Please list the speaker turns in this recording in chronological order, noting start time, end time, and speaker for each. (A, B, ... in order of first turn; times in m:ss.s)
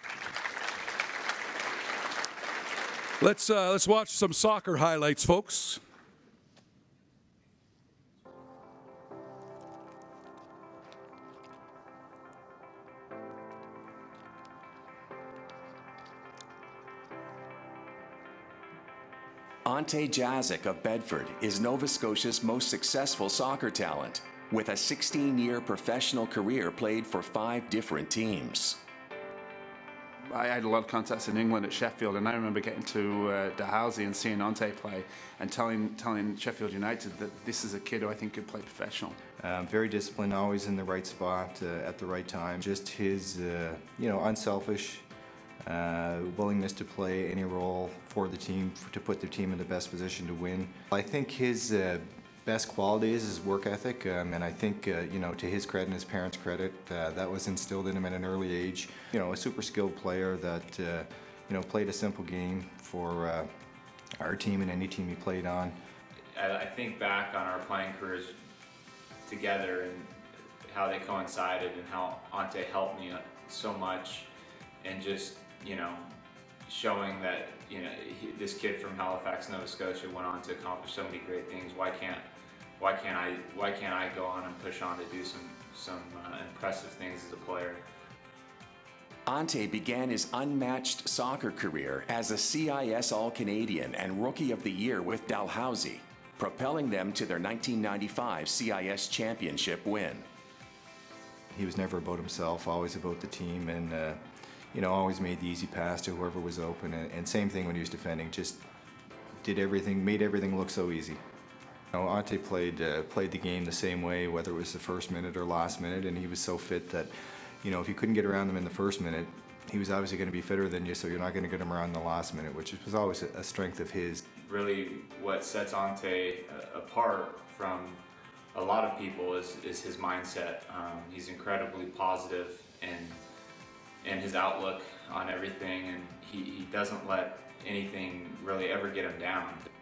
0:03.2-0:05.8 A
0:19.7-0:28.8 B
0:30.3-0:39.2 C
0:39.4-0:45.0 D
0:45.6-1:03.5 D
1:04.2-1:05.8 D
1:06.3-1:08.4 E
1:09.2-1:10.1 E
1:10.7-1:14.3 E
1:14.8-1:16.1 E
1:16.7-1:22.3 E
1:22.8-1:27.8 E
1:29.3-1:40.3 B
1:41.5-1:44.2 D
1:44.7-1:48.6 D
1:49.4-1:51.2 D
1:51.9-2:04.2 D
2:04.4-2:08.0 E
2:08.5-2:13.2 E
2:14.0-2:19.7 E